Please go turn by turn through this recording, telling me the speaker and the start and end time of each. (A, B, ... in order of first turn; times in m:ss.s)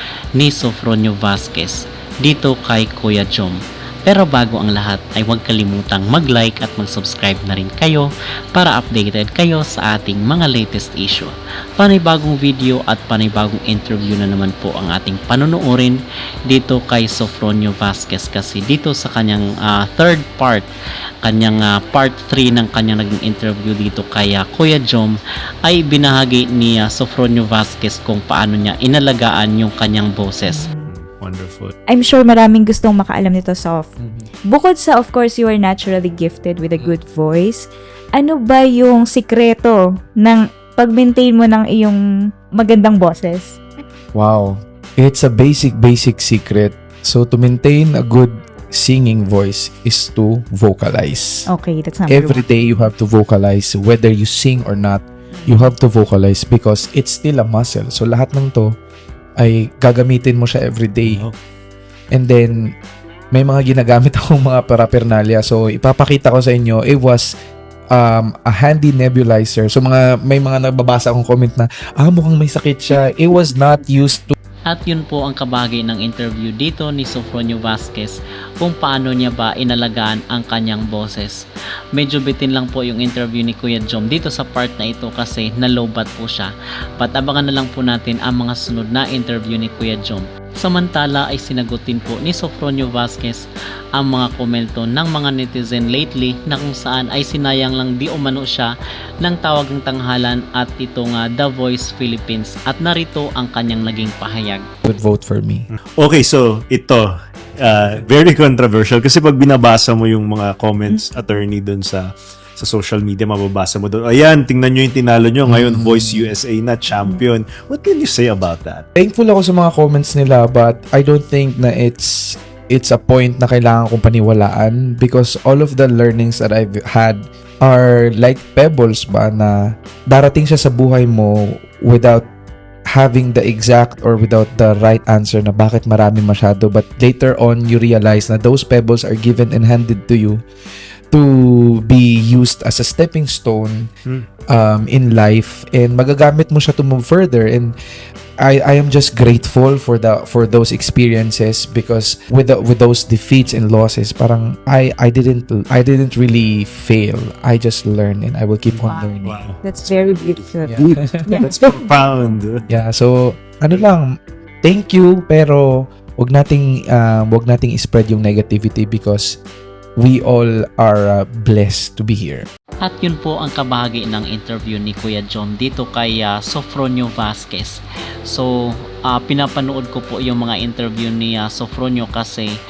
0:00.4-0:20.7 A
0:21.2-0:30.6 A
0:30.5-0:30.9 B
0:30.8-0:31.7 C
0:31.9-0:33.9 B
0:34.5-0:42.0 B
0:42.6-0:43.6 B
0:44.1-0:51.4 D
0:51.5-0:52.4 B
0:52.1-0:58.8 D
0:55.4-0:55.7 B
0:59.4-1:01.2 D
1:01.0-1:01.4 C
1:02.1-1:02.6 D
1:03.3-1:07.3 D
1:07.9-1:14.3 D
1:14.7-1:21.4 A
1:21.9-1:33.4 A
1:34.0-1:38.7 A
1:39.2-1:44.6 A
1:44.8-1:45.7 D
1:46.0-1:47.0 C
1:47.6-1:52.0 C
1:50.9-1:51.2 B
1:52.6-1:58.8 C
1:55.5-1:56.3 D
1:59.0-2:12.3 D
2:12.9-2:20.4 D
2:21.1-2:23.9 D
2:24.5-2:27.8 D
2:28.4-2:39.4 D
2:38.7-2:39.6 C
2:39.6-2:41.5 B
2:40.7-2:41.3 D
2:40.7-2:42.6 C
2:42.7-2:44.1 D
2:44.6-2:49.4 D
2:50.0-2:52.5 D
2:52.8-2:58.5 A
2:59.1-3:02.5 A